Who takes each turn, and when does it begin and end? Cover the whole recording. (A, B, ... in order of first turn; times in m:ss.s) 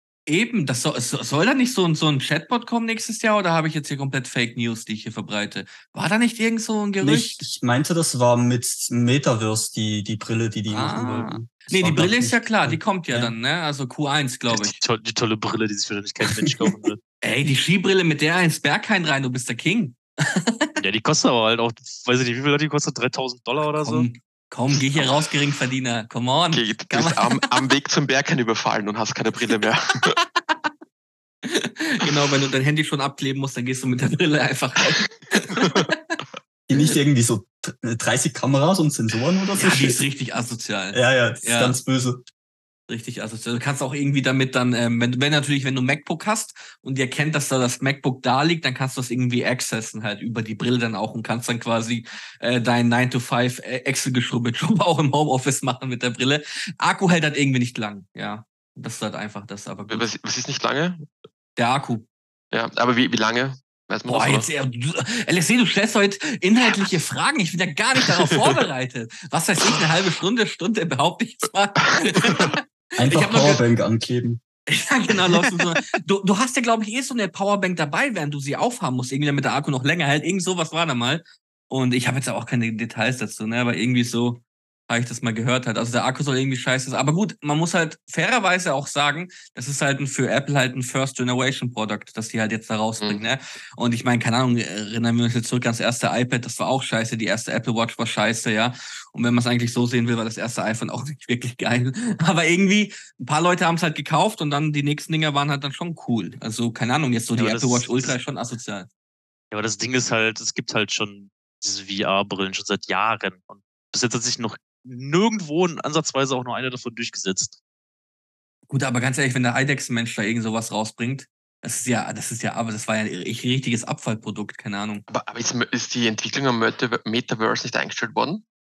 0:00.3-0:07.4 A
0:07.0-0:13.4 B
0:10.7-0:14.8 A
0:14.5-0:17.0 C
0:17.2-0:20.8 A
0:20.8-0:24.1 C
0:23.8-0:27.4 A
0:24.9-0:25.2 D
0:26.5-0:30.1 D
0:31.4-0:36.2 A
0:36.7-0:40.0 B
0:39.6-0:41.8 A
0:40.9-0:42.2 B
0:42.9-1:00.1 A
0:59.9-1:01.1 D
1:01.6-1:02.0 A
1:02.5-1:04.5 D
1:04.1-1:13.6 A
1:12.1-1:12.5 D
1:13.0-1:14.4 B
1:14.7-1:48.9 A
1:47.4-1:48.1 C
1:49.5-1:57.6 C
1:58.7-2:05.0 A
2:05.1-2:08.4 D